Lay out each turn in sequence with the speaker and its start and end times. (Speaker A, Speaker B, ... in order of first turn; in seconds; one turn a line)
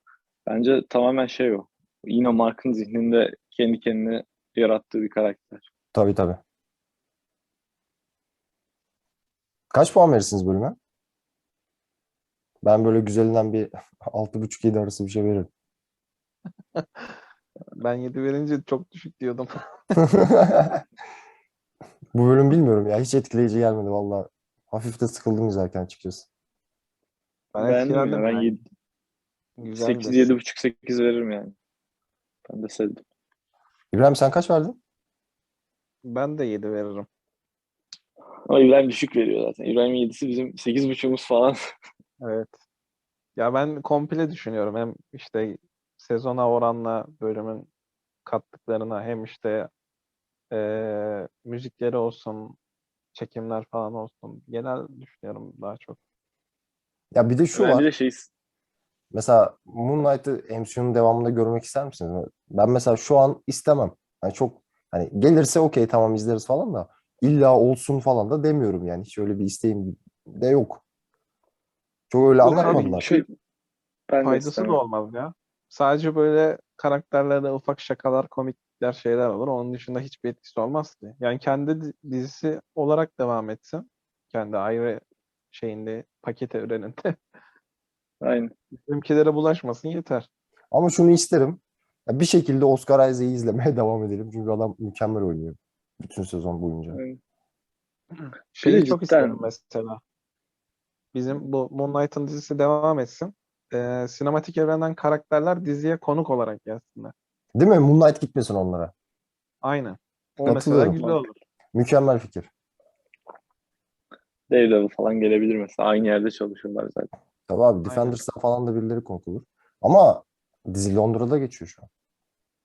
Speaker A: 0.5-5.7
Speaker B: 5.9-6.4
Speaker B: 9.7-10.8
Speaker B: 12.6-15.5
Speaker C: 16.8-17.1
Speaker C: 17.8-19.9
Speaker B: 20.0-20.8
Speaker B: 22.1-26.3
Speaker C: 27.5-28.5
Speaker A: 27.6-28.6
Speaker C: 29.6-30.4
Speaker A: 29.7-31.5
Speaker A: 32.5-33.0
Speaker B: 33.9-34.8
Speaker C: 36.0-37.1
Speaker A: 38.5-41.6
Speaker C: 42.2-42.6
Speaker C: 43.4-47.7
Speaker C: 48.2-49.7
Speaker C: 50.5-52.6
Speaker C: 53.1-56.0
Speaker B: 57.1-57.9
Speaker A: 57.5-58.3
Speaker B: 59.1-70.8
Speaker B: 72.1-73.1
Speaker C: 72.4-73.2
Speaker A: 72.5-73.3
Speaker A: 74.1-74.8
Speaker C: 74.2-87.2
Speaker A: 88.2-88.5
Speaker C: 88.7-90.3
Speaker B: 90.7-97.0
Speaker A: 96.9-97.2
Speaker C: 98.1-100.0
Speaker A: 98.6-99.5
Speaker C: 101.1-107.1
Speaker B: 107.5-108.9
Speaker C: 109.6-111.4
Speaker B: 110.4-111.0
Speaker A: 110.9-111.2
Speaker B: 111.7-112.5
Speaker A: 114.5-117.1
Speaker B: 117.5-121.9
Speaker C: 117.9-118.2